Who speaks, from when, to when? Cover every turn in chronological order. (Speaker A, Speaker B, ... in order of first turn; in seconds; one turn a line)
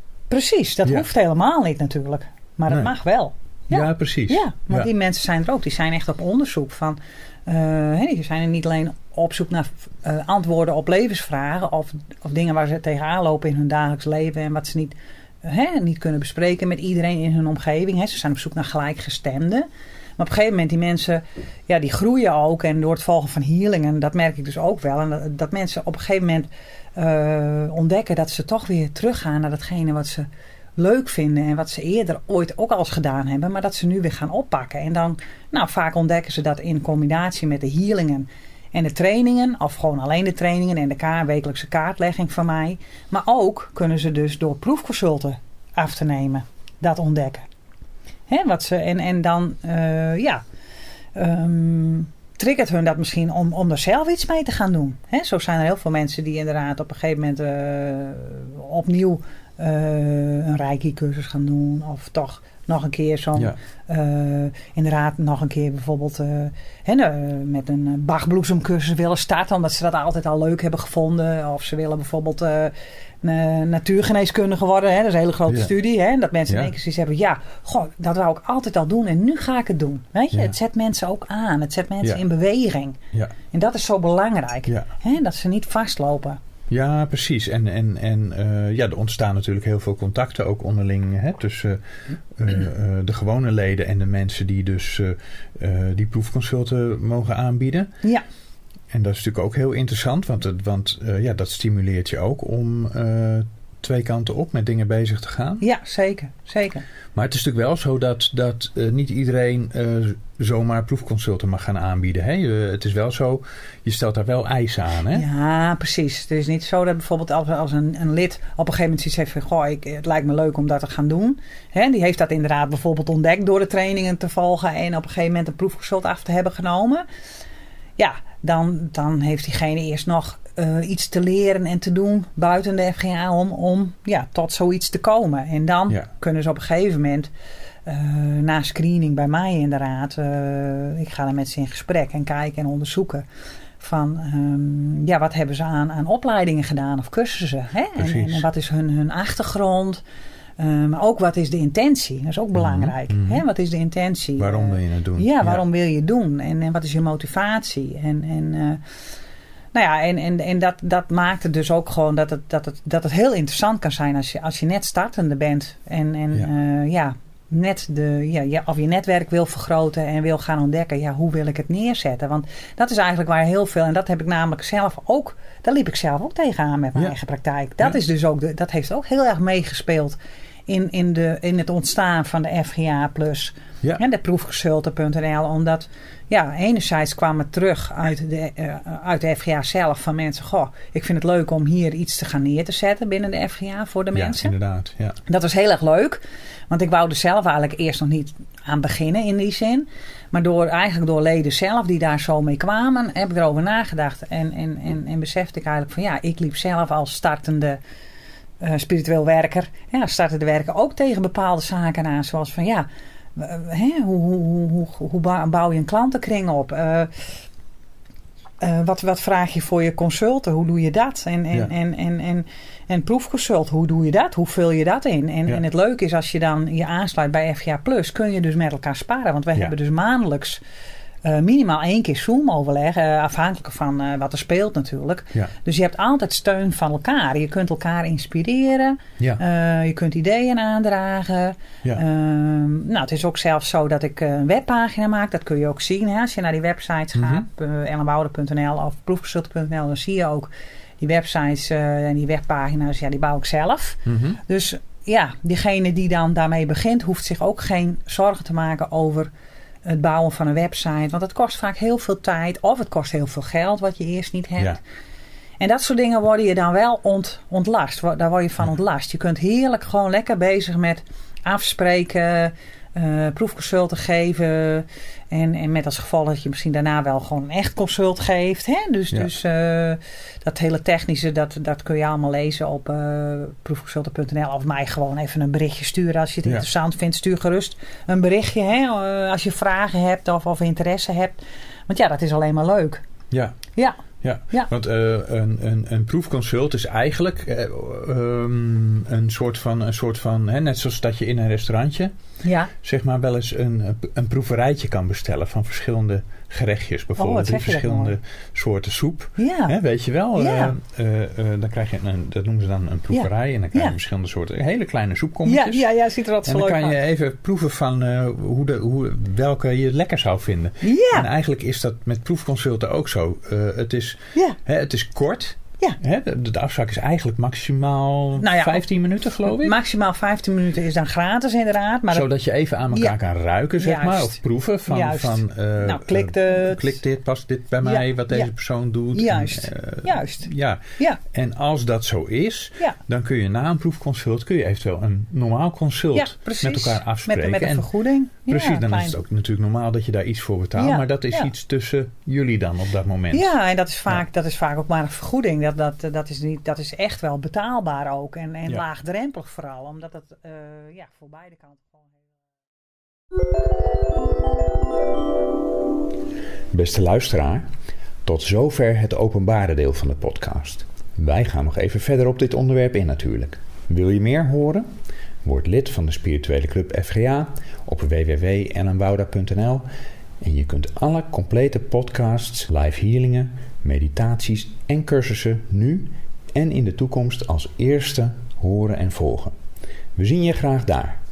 Speaker A: 0.3-19.6
Speaker B: 3.7-4.9
Speaker A: 20.2-47.5
Speaker A: 48.3-50.4
Speaker A: 51.1-83.0
Speaker A: 83.5-86.4
Speaker B: 86.7-91.8
Speaker B: 92.3-97.9
Speaker B: 98.9-105.6
Speaker A: 105.6-106.8
Speaker B: 107.1-115.2
Speaker A: 115.1-127.0
Speaker A: 128.0-137.3
Speaker A: 137.8-143.2
Speaker A: 143.8-150.0
Speaker B: 147.9-148.4
Speaker A: 150.6-158.8
Speaker B: 152.5-153.4
Speaker B: 154.4-155.6
Speaker A: 159.7-194.5
Speaker B: 194.1-195.2
Speaker A: 195.2-207.8
Speaker A: 208.6-217.3
Speaker A: 218.6-230.6
Speaker A: 231.2-259.3
Speaker B: 247.1-247.4
Speaker B: 254.1-254.4
Speaker A: 259.9-264.8
Speaker A: 265.6-293.0
Speaker B: 293.3-293.6
Speaker B: 294.2-302.1
Speaker A: 302.4-302.7
Speaker B: 302.8-315.8
Speaker A: 307.2-308.1
Speaker A: 309.4-309.7
Speaker A: 310.4-310.7
Speaker A: 313.1-314.0
Speaker A: 315.4-317.0
Speaker B: 316.4-329.7
Speaker A: 320.8-321.3
Speaker A: 328.4-328.9
Speaker A: 329.4-332.3
Speaker B: 332.1-347.9
Speaker A: 332.9-333.1
Speaker A: 333.8-337.0
Speaker A: 337.8-338.5
Speaker A: 339.1-341.2
Speaker A: 346.1-349.2
Speaker B: 348.5-353.5
Speaker A: 350.8-351.5
Speaker A: 353.3-362.2
Speaker B: 366.7-367.6
Speaker B: 368.2-374.9
Speaker B: 375.4-379.9
Speaker B: 380.4-389.5
Speaker B: 390.2-391.2